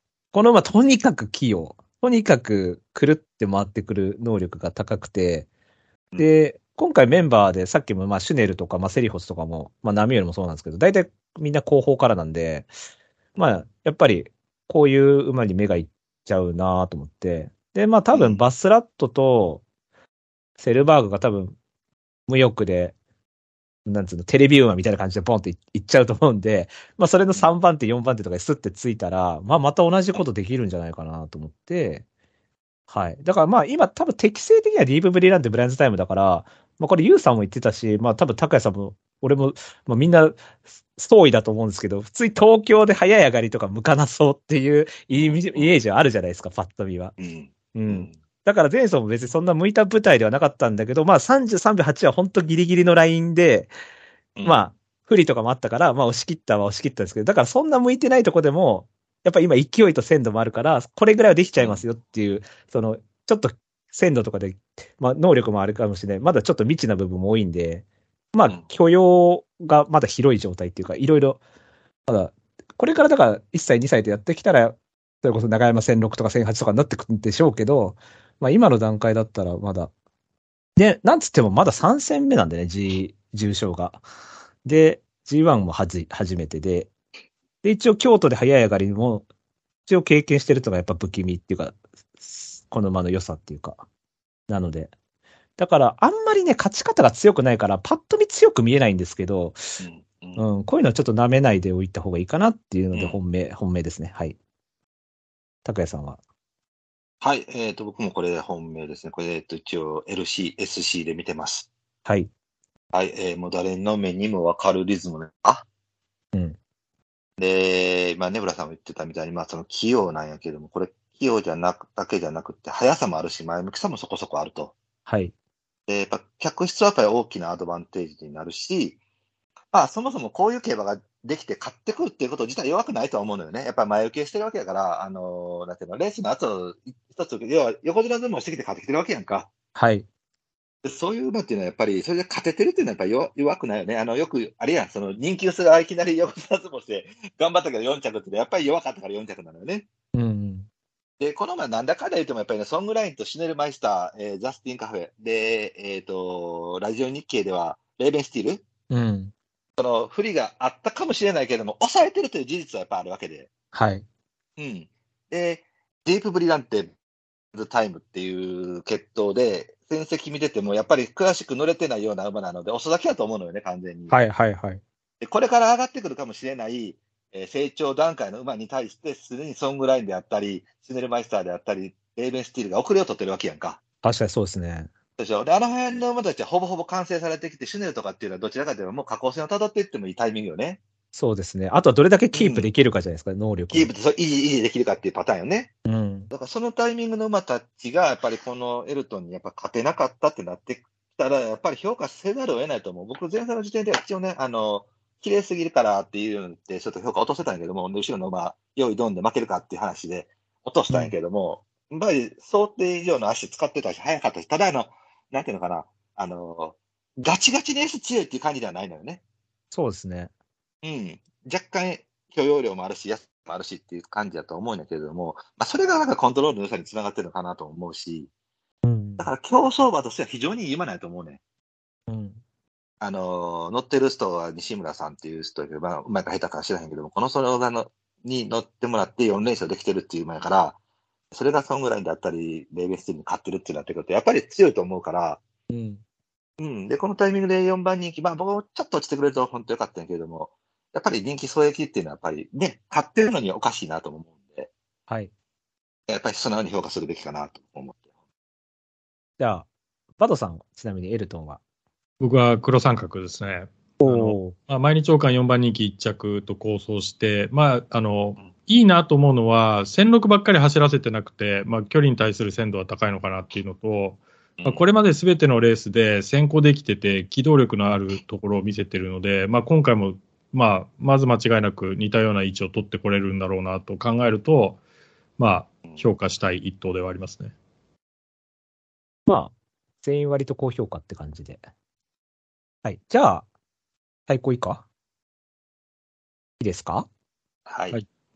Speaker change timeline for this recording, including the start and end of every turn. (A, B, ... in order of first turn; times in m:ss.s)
0:00.3-0:05.5 A
0:06.2-0:12.7 A
0:13.4-0:19.6 A
0:18.1-0:18.4 B
0:20.6-0:21.6 A
0:22.3-0:22.9 A
0:23.9-0:32.0 A
0:32.9-0:47.1 A
0:45.1-0:45.7 B
0:47.2-0:48.2 B
0:47.7-0:53.7 A
0:54.4-0:54.7 B
0:54.4-1:11.4 A
1:01.6-1:01.8 B
1:12.1-1:19.9 A
1:20.8-1:24.0 A
1:24.6-1:26.9 A
1:27.6-1:29.2 A
1:29.9-1:33.8 A
1:34.5-1:34.9 A
1:35.6-1:39.6 A
1:39.8-1:40.4 B
1:40.4-1:44.4 A
1:42.9-1:43.2 B
1:45.6-1:46.2 A
1:47.2-1:51.7 B
1:52.9-1:55.6 B
1:57.4-2:04.7 B
2:05.1-2:05.3 A
2:05.9-2:09.0 B
2:09.7-2:19.5 B
2:19.7-2:20.1 A
2:20.8-2:29.9 B
2:30.1-2:30.7 A
2:31.2-2:38.6 B
2:38.9-2:39.3 A
2:39.8-2:43.5 B
2:43.7-2:44.1 A
2:44.6-2:46.9 B
2:47.5-2:54.2 B
2:54.1-2:54.8 A
2:55.2-3:03.8 B
3:04.0-3:04.9 A
3:05.2-3:10.8 B
3:11.1-3:13.9 A
3:12.3-3:12.7 B
3:13.7-3:15.7 B
3:15.8-3:16.3 A
3:16.3-3:39.2 B
3:30.9-3:31.1 A
3:39.7-3:40.3 A
3:40.8-3:48.3 B
3:48.8-3:49.3 A
3:49.2-3:51.4 B
3:52.1-3:52.4 A
3:53.0-4:00.8 B
4:01.3-4:05.4 B
4:05.7-4:06.0 A
4:06.6-4:14.7 B
4:16.1-4:18.0 B
4:19.4-4:19.7 A
4:20.2-4:21.6 A
4:22.2-4:44.8 C
4:24.0-4:24.5 A
4:45.4-4:47.5 C
4:49.3-4:51.6 A
4:52.8-4:53.4 A
4:54.3-4:54.8 A
4:56.6-4:57.1 A
4:57.7-4:58.0 B